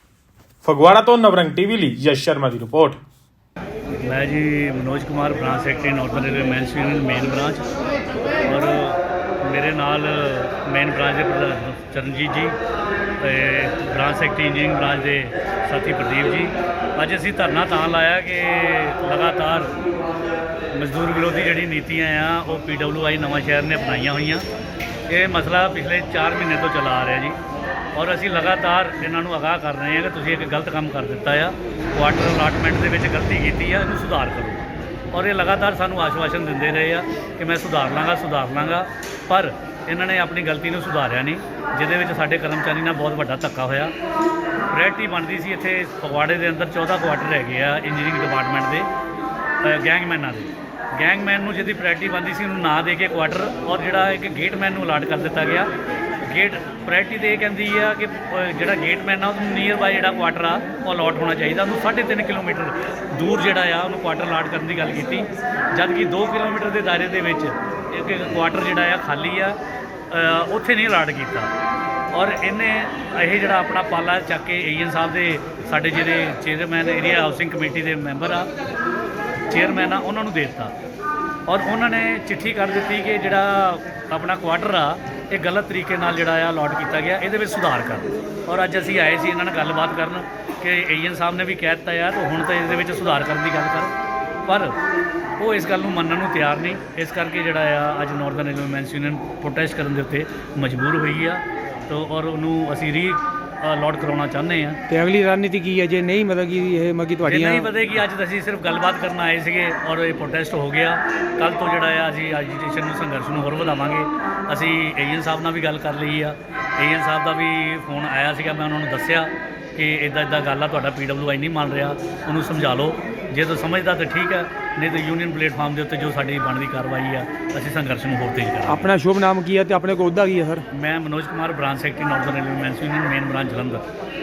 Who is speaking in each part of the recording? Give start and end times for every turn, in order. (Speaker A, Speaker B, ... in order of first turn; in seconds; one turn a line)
Speaker A: 0.6-3.0
Speaker B: 4.0-7.6
Speaker B: 8.4-12.6
Speaker B: 13.2-19.7
Speaker B: 20.7-24.4
Speaker B: 25.1-27.4
Speaker B: 27.9-43.9
Speaker B: 44.7-48.9
Speaker B: 49.6-55.7
Speaker B: 56.2-69.6
Speaker B: 70.1-71.5
Speaker B: 72.1-78.5
Speaker B: 79.5-80.7
Speaker B: 81.5-93.9
Speaker B: 94.5-94.8
Speaker B: 95.4-104.8
Speaker C: 104.9-107.7
Speaker B: 107.2-128.9
Speaker C: 128.7-130.7
Speaker B: 130.7-133.8